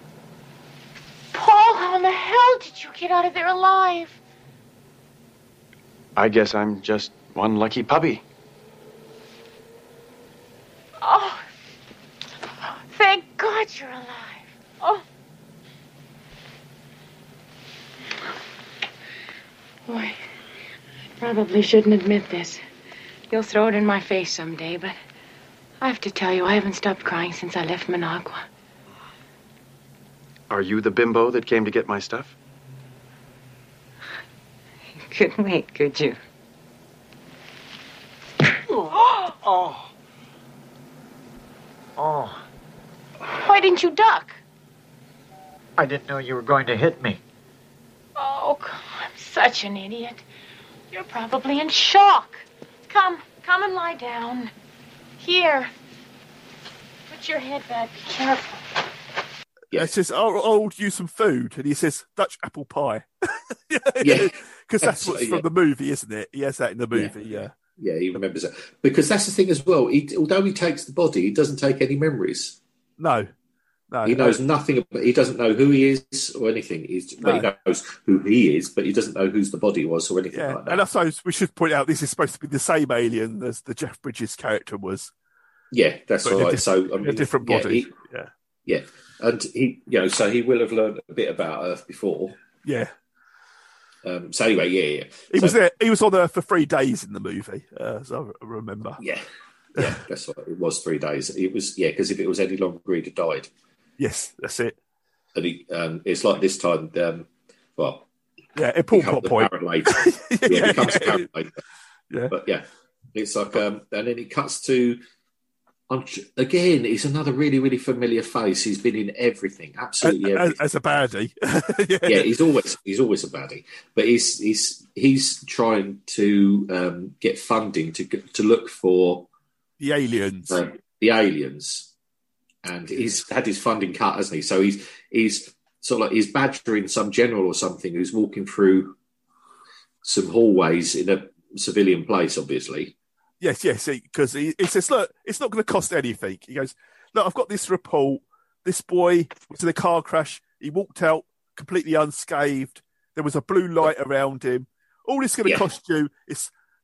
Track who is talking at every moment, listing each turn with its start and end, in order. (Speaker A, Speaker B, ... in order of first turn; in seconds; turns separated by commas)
Speaker A: 1.3-4.2, Speaker B: 6.2-8.2, Speaker A: 11.0-11.4, Speaker A: 12.4-15.0, Speaker A: 19.9-20.2, Speaker A: 21.2-22.6, Speaker A: 23.3-24.9, Speaker A: 25.8-28.4, Speaker B: 30.5-32.3, Speaker A: 35.1-36.2, Speaker A: 38.7-39.3, Speaker C: 39.4-39.9, Speaker C: 42.0-42.4, Speaker A: 43.4-44.4, Speaker C: 45.8-47.2, Speaker A: 48.2-50.2, Speaker A: 50.9-54.5, Speaker A: 55.2-55.7, Speaker A: 57.1-58.6, Speaker D: 59.7-67.5, Speaker E: 64.0-65.4, Speaker E: 66.9-72.6, Speaker D: 73.0-73.3, Speaker D: 73.9-74.4, Speaker E: 74.0-80.8, Speaker D: 77.2-77.5, Speaker D: 80.3-85.1, Speaker E: 85.7-87.9, Speaker D: 86.2-88.3, Speaker E: 88.7-92.4, Speaker D: 92.6-92.9, Speaker E: 94.0-95.6, Speaker D: 95.3-99.0, Speaker E: 99.0-103.5, Speaker D: 104.0-104.8, Speaker E: 105.3-108.0, Speaker D: 108.5-111.3, Speaker E: 108.9-111.6, Speaker E: 112.3-115.0, Speaker E: 115.9-120.6, Speaker D: 120.0-122.3, Speaker E: 122.1-129.3, Speaker D: 129.8-130.6, Speaker E: 130.5-131.9, Speaker E: 132.6-138.9, Speaker E: 140.0-142.9, Speaker D: 143.4-156.5